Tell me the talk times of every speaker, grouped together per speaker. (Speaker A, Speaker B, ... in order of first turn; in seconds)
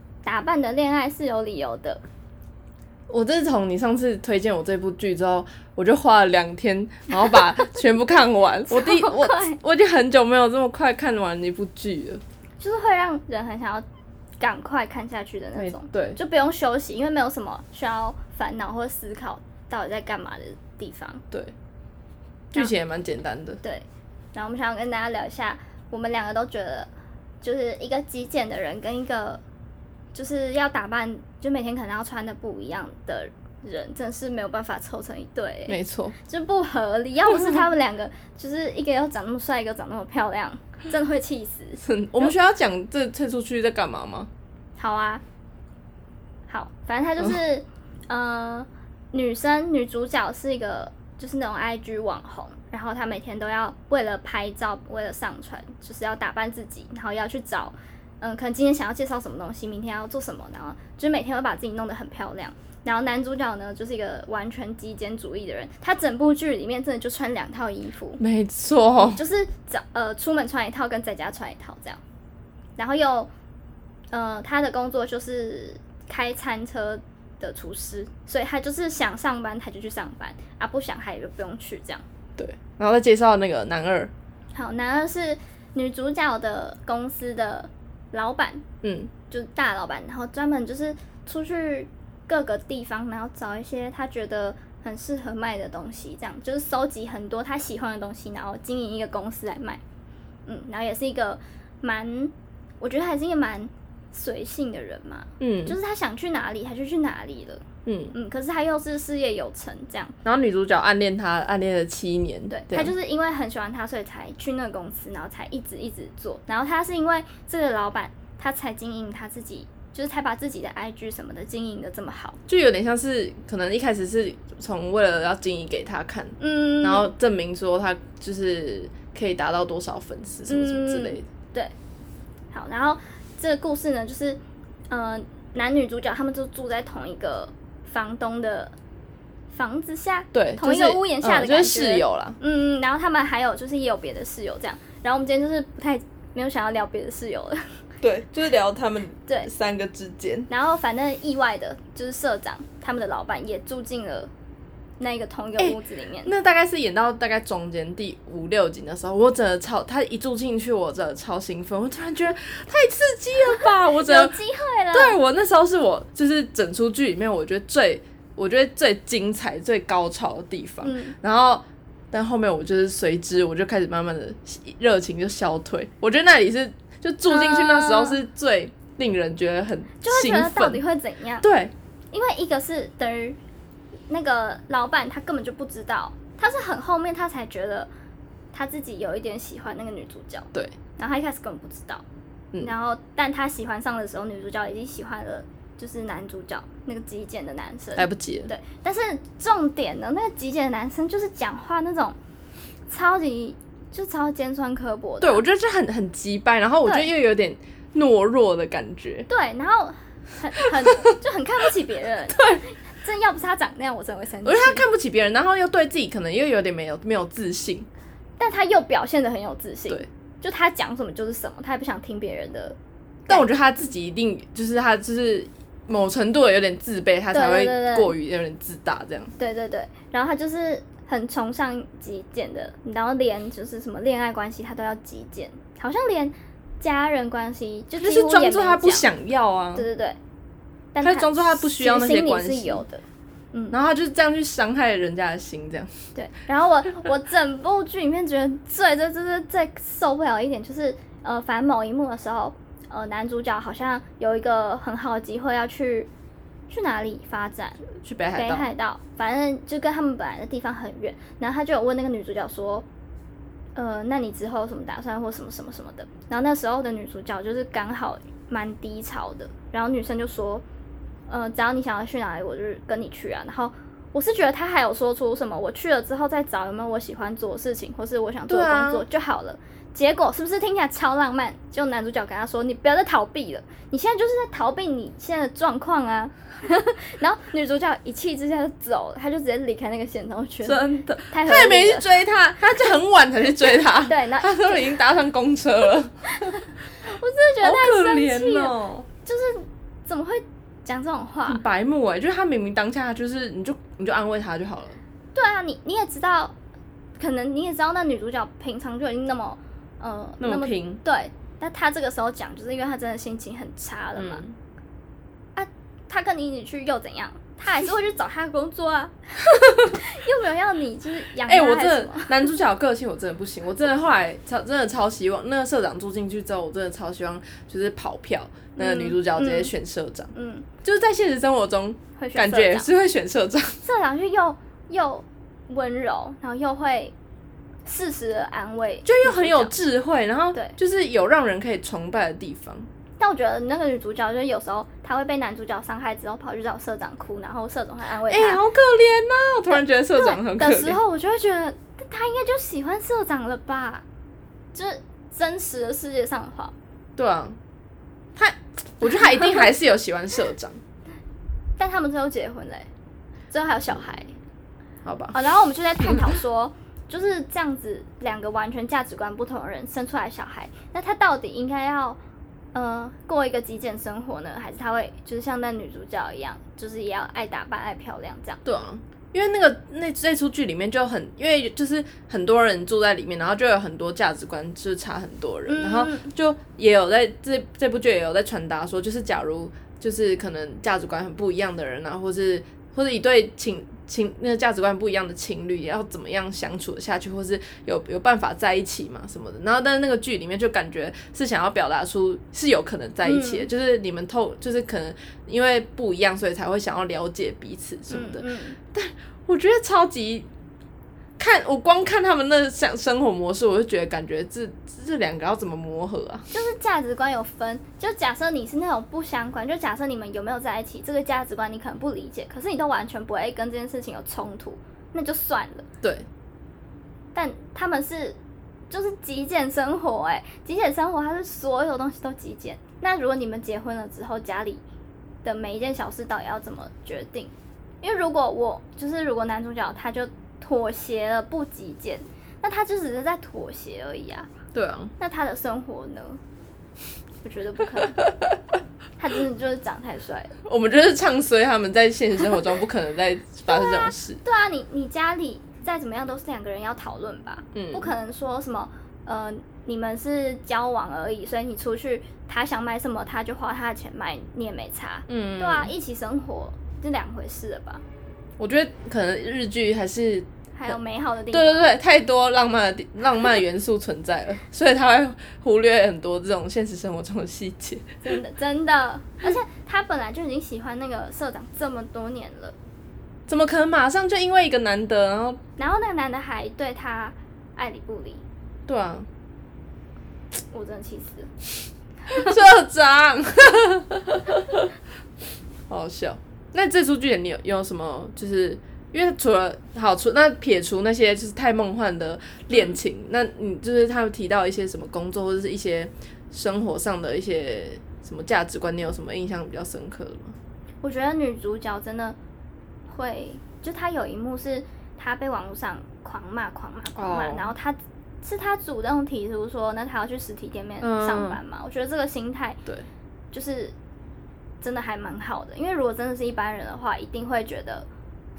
Speaker A: 0.2-2.0, 8.7-9.6, 12.6-13.8, 14.4-21.2, 23.6-26.9, 27.4-29.4, 30.1-42.3, 44.8-45.2, 46.5-68.2, 69.0-72.0, 72.8-73.3, 74.1-82.0, 84.5-88.6, 89.3-99.8, 100.5-107.6, 108.1-110.2, 112.5-122.4, 126.4-127.1, 130.5-131.7, 132.5-138.7, 139.5-147.8, 150.5-154.3, 155.0-156.3, 163.5-165.2, 170.8-171.2, 177.2-178.2, 180.0-181.5, 182.1-183.4, 184.1-187.9, 188.5-192.0, 192.6-202.2, 202.9-205.4, 206.8-207.1, 209.3-214.9, 218.4-222.8, 227.3-228.1, 229.4-239.1, 239.8-240.2, 240.9-243.8, 246.2-256.1, 256.7-262.9, 263.8-270.6, 271.3-292.1, 293.7-295.0, 296.3-301.6, 305.3-306.6, 307.2-314.4, 315.6-322.5, 328.8-329.7, 330.3-330.7, 332.2-332.9, 333.8-337.1, 337.9-339.7, 343.2-348.6, 350.2-354.1, 354.7-356.8, 359.1-359.7, 361.8-362.9, 363.5-364.4, 365.3-372.2, 372.7-378.6, 385.7-386.3, 403.2-403.7, 408.1-408.8, 416.5-425.9, 427.3-428.4, 428.9-434.8, 435.4-444.5, 445.2-446.4, 447.4-448.2, 449.2-450.6, 453.7-468.0, 470.7-471.9, 478.2-482.8, 485.8-488.4, 490.7-491.5, 511.0-512.4, 513.1-522.8, 523.5-524.0, 524.8-528.1
Speaker B: 3.1-12.2, 15.6-16.2, 22.5-23.6, 35.7-36.2, 41.8-44.3, 68.2-69.2, 82.4-84.1, 88.8-89.1, 105.4-105.8, 107.9-108.2, 110.2-112.9, 122.5-131.3, 140.3-142.4, 148.0-150.5, 155.6-164.4, 164.9-180.8, 181.4-181.7, 198.0-198.5, 205.2-209.3, 214.4-217.9, 223.3-229.3, 238.0-239.9, 241.0-242.8, 243.7-245.9, 258.0-258.7, 278.5-279.1, 290.6-296.3, 297.6-299.1, 301.5-305.0, 310.4-311.0, 314.2-314.6, 321.5-330.3, 330.8-333.8, 339.1-342.9, 348.3-351.0, 357.2-357.6, 358.4-360.8, 365.0-365.4, 378.6-410.5, 411.4-416.5, 444.7-445.1, 448.1-448.5, 450.6-454.4, 457.7-458.1, 465.3-465.9, 468.6-471.0, 471.5-478.2, 483.5-485.6, 488.9-489.3, 492.3-494.9, 495.9-510.6, 517.1-517.7, 521.0-521.6